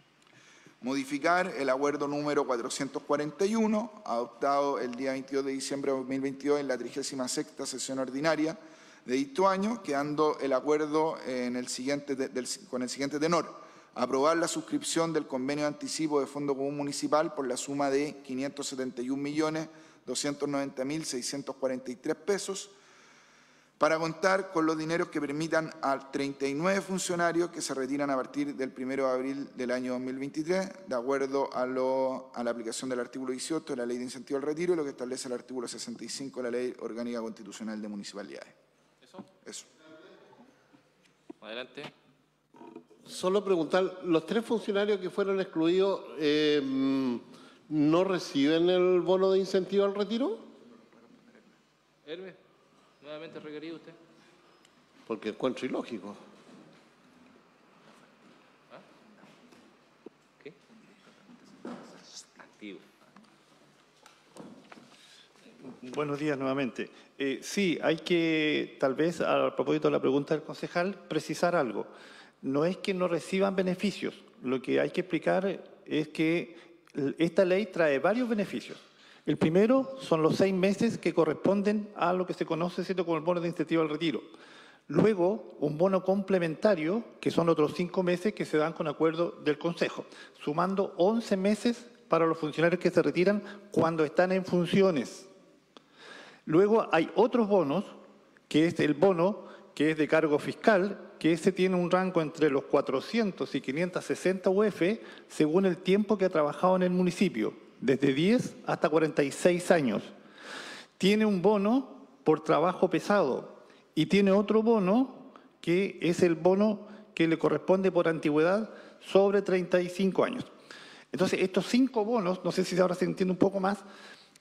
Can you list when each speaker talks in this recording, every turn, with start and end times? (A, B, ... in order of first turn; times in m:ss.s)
0:00.8-0:22.7 A
0:23.8-0:38.5 A
0:41.4-0:41.9 B
0:43.1-0:50.5 C
0:52.0-0:52.4 B
0:53.0-0:54.0 B
0:55.1-0:56.2 C
1:02.1-1:02.9 B
1:05.8-1:11.9 D
1:12.4-1:24.3 D
1:24.9-1:35.3 D
1:36.4-1:38.0 D
1:38.5-1:50.1 D
1:51.0-2:00.5 D
2:01.1-2:03.8 D